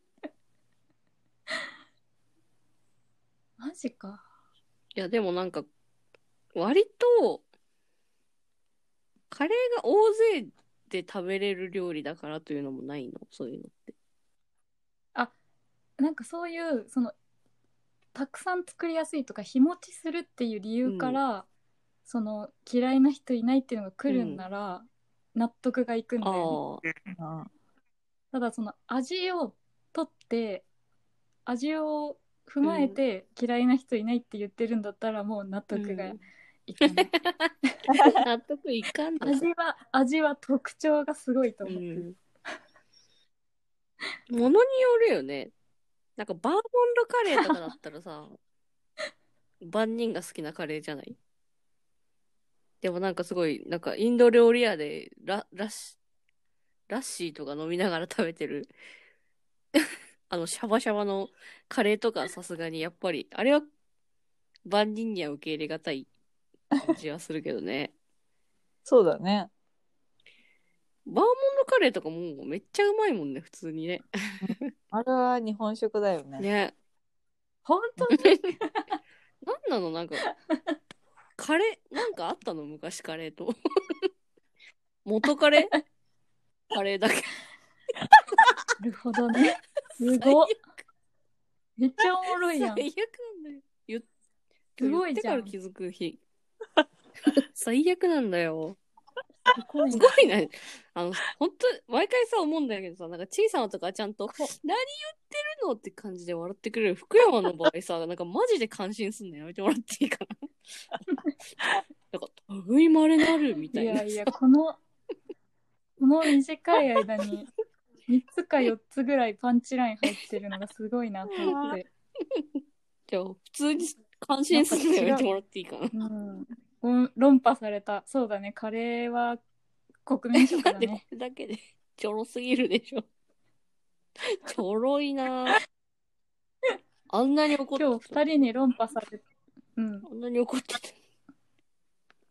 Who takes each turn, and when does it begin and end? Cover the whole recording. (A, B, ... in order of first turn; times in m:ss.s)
0:03.6-0:04.2 A
0:05.0-0:05.7 B
0:06.6-0:07.4 B
0:09.3-0:13.9 B
0:16.0-0:17.1 A
0:18.1-0:21.5 A
0:20.8-0:21.2 B
0:22.1-0:26.6 A
0:24.1-0:24.4 B
0:26.2-0:26.8 B
0:27.1-0:27.5 C
0:28.3-0:30.6 A
0:31.4-0:38.2 A
0:32.6-0:33.0 B
0:35.7-0:36.2 B
0:36.8-0:37.5 B
0:38.2-0:39.5 B
0:39.2-0:42.0 A
0:41.6-0:42.2 B
0:44.3-0:45.5 B
0:46.2-0:48.4 B
0:49.6-0:51.2 B
0:52.8-0:56.0 B
0:56.9-0:58.7 B
1:00.3-1:03.7 B
1:04.6-1:06.1 B
1:06.8-1:07.9 B
1:08.9-1:09.5 C
1:11.1-1:14.7 B
1:14.4-1:16.4 C
1:16.4-1:16.7 B
1:17.6-1:18.9 A
1:18.1-1:18.4 B
1:19.4-1:20.2 B
1:21.4-1:24.0 B
1:25.0-1:25.8 B
1:26.7-1:27.3 B
1:28.8-1:30.6 A
1:30.1-1:30.5 B
1:31.8-1:32.8 A
1:32.6-1:34.0 B
1:34.8-1:36.2 B
1:34.8-1:35.5 A
1:37.4-1:38.8 B
1:39.5-1:40.3 A
1:39.9-1:50.5 B
1:52.1-1:54.3 B
1:53.7-1:54.8 A
1:56.0-1:57.5 A
1:58.1-2:01.9 A
2:01.4-2:01.7 C
2:03.1-2:05.9 B
2:04.5-2:05.2 A
2:05.9-2:09.4 A
2:10.1-2:11.0 A
2:10.4-2:13.1 B
2:14.2-2:15.6 B
2:17.1-2:18.2 B
2:17.8-2:19.2 A
2:19.8-2:20.1 A
2:20.1-2:21.0 B